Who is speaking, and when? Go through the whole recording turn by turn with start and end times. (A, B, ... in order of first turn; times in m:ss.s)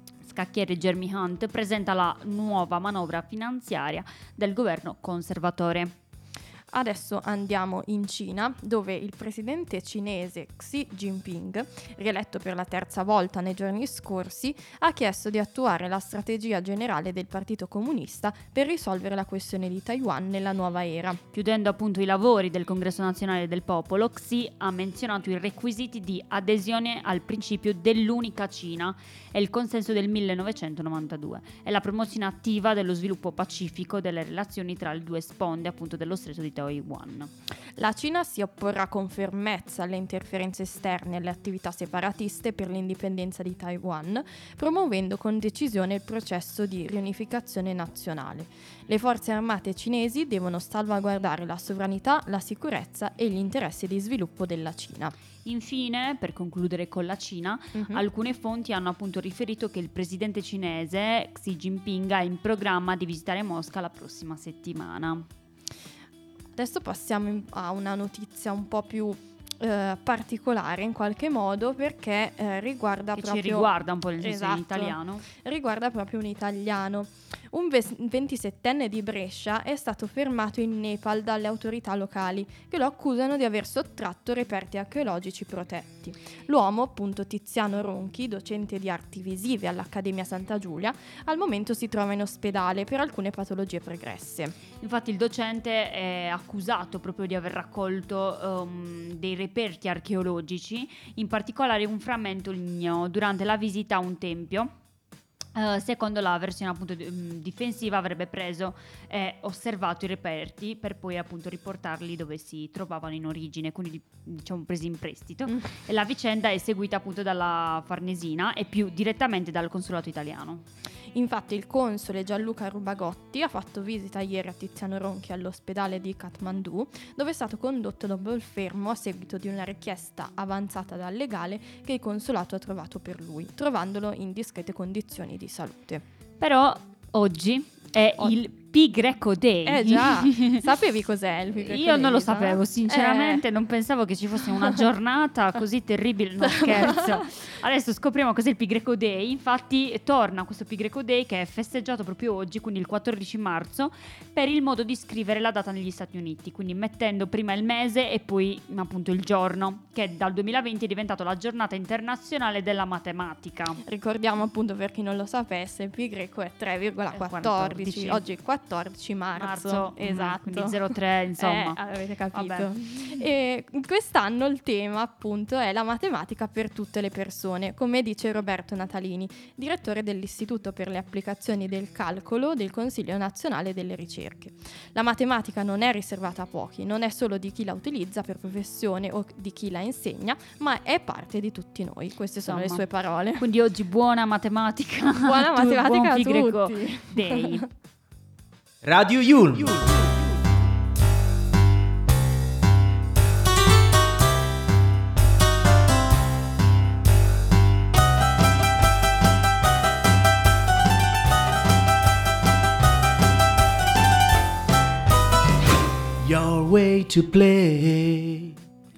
0:00.2-0:05.9 A
0:06.7-0:21.2 B
0:21.3-0:37.3 A
0:37.8-0:55.1 B
0:55.4-1:05.3 A
0:57.7-0:58.0 B
1:06.6-1:34.5 B
1:13.2-1:15.2 A
1:34.8-1:44.7 A
1:45.5-2:00.6 A
2:01.1-2:16.0 B
2:16.4-2:20.6 A
2:19.6-2:23.4 B
2:21.6-2:43.8 A
2:26.6-2:27.2 B
2:43.8-3:13.4 B
2:47.1-2:48.2 A
2:49.4-2:51.8 A
2:52.3-2:53.2 A
3:12.4-3:17.7 A
3:15.2-3:17.6 B
3:19.0-3:19.4 C
3:36.4-3:38.1 C